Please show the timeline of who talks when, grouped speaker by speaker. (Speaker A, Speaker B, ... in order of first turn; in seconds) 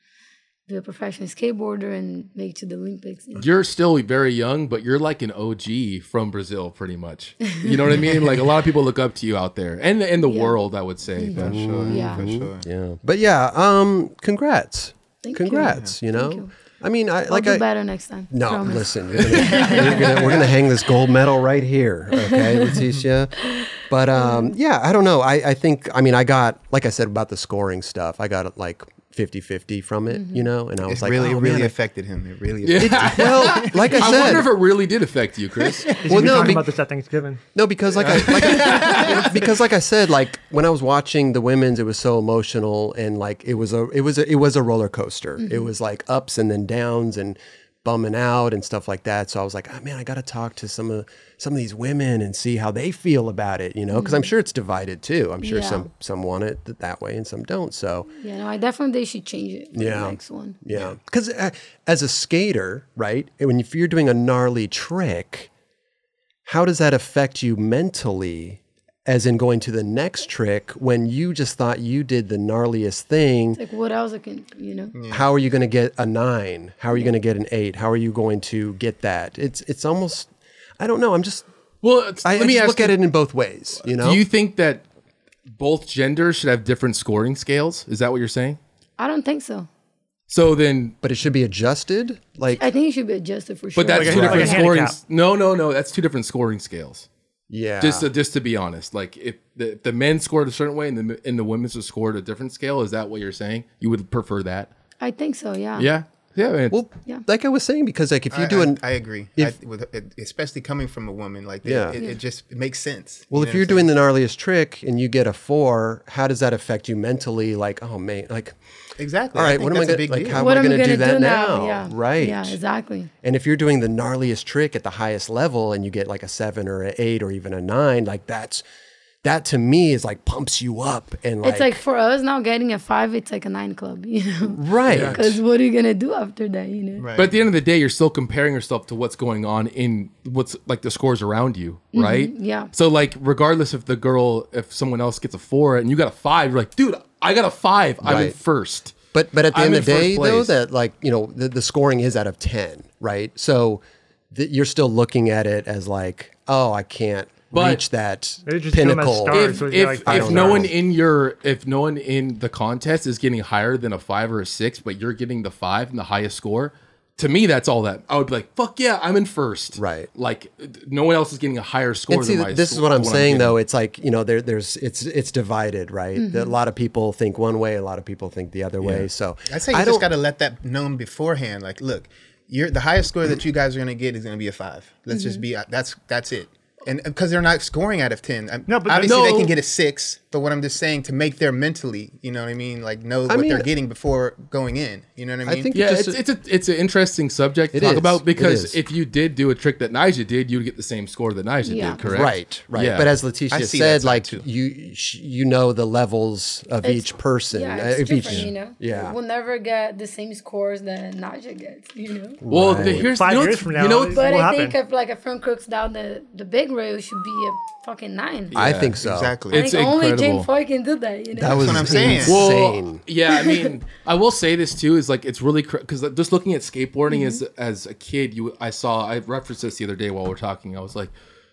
Speaker A: 0.7-3.5, 7.4-7.8, 10.3-10.6, 11.2-12.3, 15.2-16.5, 17.3-20.5, 22.1-22.8, 23.4-24.6, 30.1-30.5, 45.4-45.7, 53.9-54.3, 55.4-55.9, 58.1-60.6, 73.6-74.9, 89.0-89.7, 92.6-94.7, 105.0-105.9, 112.0-112.2, 120.3-123.1, 131.4-137.1, 141.9-142.7, 176.2-176.6, 185.1-185.4, 201.7-202.0, 206.8-212.4, 214.1-218.6, 219.5-222.2, 223.3-223.7, 227.1-227.4
Speaker B: 3.4-11.7, 32.6-36.4, 38.3-39.3, 81.8-83.0, 83.9-84.8, 85.5-88.6, 90.3-91.0, 93.8-97.1, 97.8-104.7, 105.8-106.8, 134.9-135.2, 137.2-148.9, 149.5-150.6, 157.5-157.8, 159.3-173.6, 178.8-179.1, 189.0-189.6, 195.7-203.1, 212.5-214.2, 218.5-220.5, 222.2-231.1
Speaker C: 11.3-12.7, 15.7-15.9, 19.2-20.6, 30.8-34.3, 35.6-36.5, 38.0-39.2, 60.7-61.0, 74.9-75.3, 108.3-113.9, 119.0-120.5, 137.0-137.3, 179.5-195.8, 203.5-204.4, 219.0-219.6, 221.5-222.4
Speaker D: 11.4-17.7, 18.3-31.7, 32.8-34.5, 36.1-36.8, 37.5-58.1, 59.8-65.5, 66.5-73.6, 75.1-81.5, 82.2-84.2, 91.0-92.7, 94.1-94.6, 97.5-98.1, 106.7-108.8, 111.6-112.0, 113.3-118.6, 119.3-122.6, 123.2-128.6, 129.2-131.8, 134.5-135.4, 148.0-148.4, 149.1-160.7, 169.8-170.1, 172.1-180.1, 193.3-193.7, 195.4-196.2, 197.7-198.8, 202.0-209.2, 212.4-213.1, 218.5-219.4, 221.3-223.0
Speaker E: 36.0-37.4, 94.0-95.0, 158.5-160.7, 188.7-189.2, 212.8-214.8